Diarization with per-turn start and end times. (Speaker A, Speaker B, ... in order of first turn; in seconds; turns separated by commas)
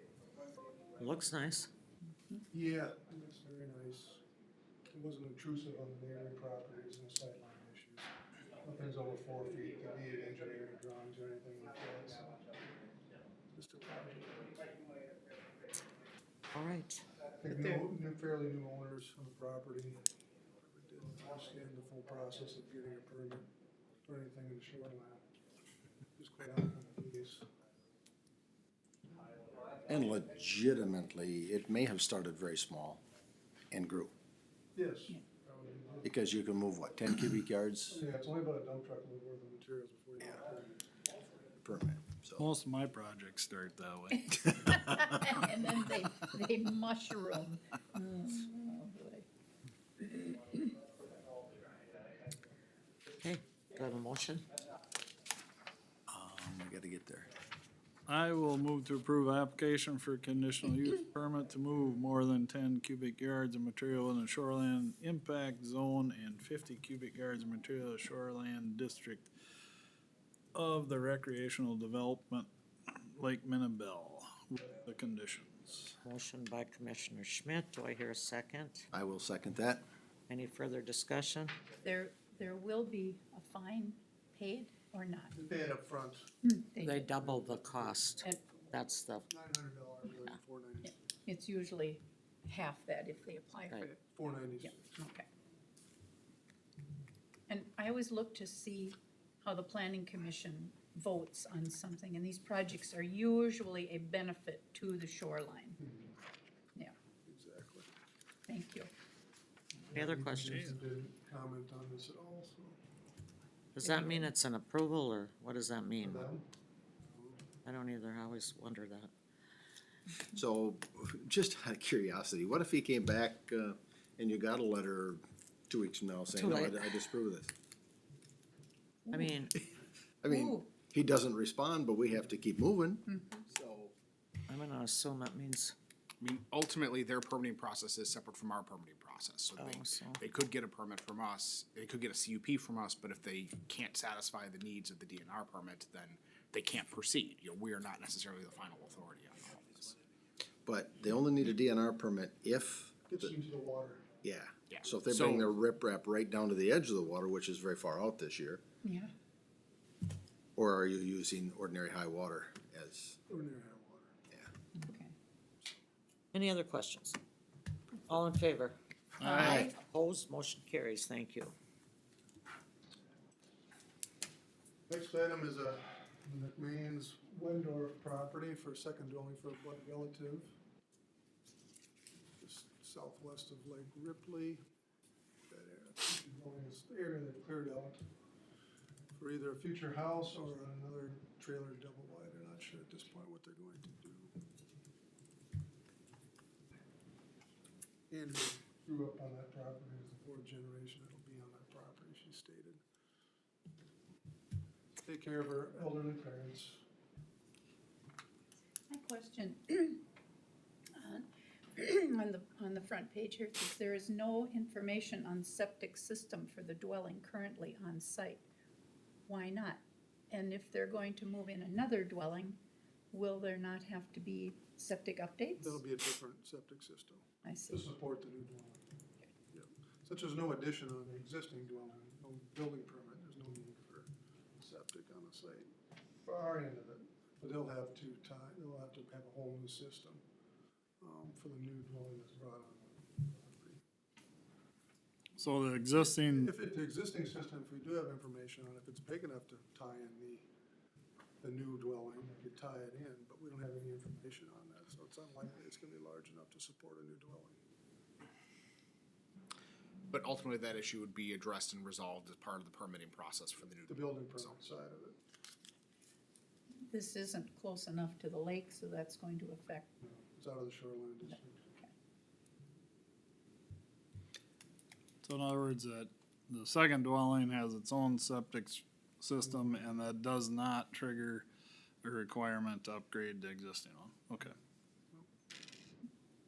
Speaker A: 1.0-1.7, Speaker B: 2.5-4.2, Speaker B: 4.9-12.6, Speaker B: 13.5-14.7, Speaker A: 16.5-17.0, Speaker B: 17.4-20.0, Speaker B: 20.6-23.5, Speaker B: 24.0-25.2, Speaker B: 26.2-27.5, Speaker C: 29.9-33.0, Speaker C: 33.7-34.1, Speaker B: 34.8-36.2, Speaker C: 36.0-38.0, Speaker B: 37.9-40.9, Speaker C: 41.6-42.5, Speaker D: 42.4-45.1, Speaker E: 44.1-49.3, Speaker E: 50.0-50.7, Speaker A: 53.2-54.5, Speaker C: 56.1-57.3, Speaker D: 58.1-69.3, Speaker D: 70.5-72.5, Speaker D: 73.2-76.0, Speaker A: 76.0-78.9, Speaker C: 78.9-79.8, Speaker A: 80.3-81.6, Speaker E: 81.8-85.3, Speaker B: 85.3-86.3, Speaker E: 86.4-87.2, Speaker A: 86.8-89.3, Speaker B: 87.2-90.9, Speaker E: 90.8-94.0, Speaker B: 94.1-94.9, Speaker E: 94.6-95.3, Speaker E: 97.5-105.8, Speaker B: 105.8-106.1, Speaker B: 107.2-107.9, Speaker E: 108.5-108.9, Speaker B: 109.9-112.8, Speaker A: 109.9-110.6, Speaker D: 110.4-110.8, Speaker A: 113.8-116.3, Speaker E: 113.8-114.3, Speaker B: 116.0-116.5, Speaker A: 117.6-119.1, Speaker C: 120.3-127.5, Speaker A: 126.3-127.0, Speaker E: 129.1-129.4, Speaker A: 129.1-129.5, Speaker C: 130.2-133.9, Speaker E: 130.3-130.7, Speaker E: 133.1-133.4, Speaker A: 134.5-135.8, Speaker F: 136.2-150.0, Speaker A: 139.6-140.2, Speaker C: 150.7-153.3, Speaker B: 153.1-154.1, Speaker C: 154.2-158.6, Speaker F: 154.7-155.4, Speaker E: 158.8-159.1, Speaker C: 160.6-163.2, Speaker B: 163.3-164.2, Speaker E: 164.8-165.1, Speaker A: 166.3-167.2, Speaker A: 168.1-168.8, Speaker E: 169.2-169.6, Speaker D: 169.2-169.7, Speaker A: 169.4-171.5, Speaker B: 174.9-180.6, Speaker B: 182.4-184.6, Speaker B: 185.5-188.0, Speaker B: 189.1-194.3, Speaker B: 198.1-202.8, Speaker B: 205.0-206.8, Speaker E: 208.9-210.1, Speaker E: 211.0-218.5, Speaker E: 219.3-222.6, Speaker E: 223.1-225.8, Speaker B: 225.6-228.8, Speaker E: 227.4-227.8, Speaker B: 229.5-235.7, Speaker B: 236.2-240.2, Speaker B: 241.0-243.8, Speaker D: 245.4-246.5, Speaker B: 246.2-250.5, Speaker B: 251.4-257.6, Speaker F: 260.1-264.6, Speaker B: 263.9-265.2, Speaker E: 266.9-269.9, Speaker B: 270.0-271.7, Speaker E: 271.3-271.9, Speaker D: 275.2-281.5, Speaker D: 282.0-284.5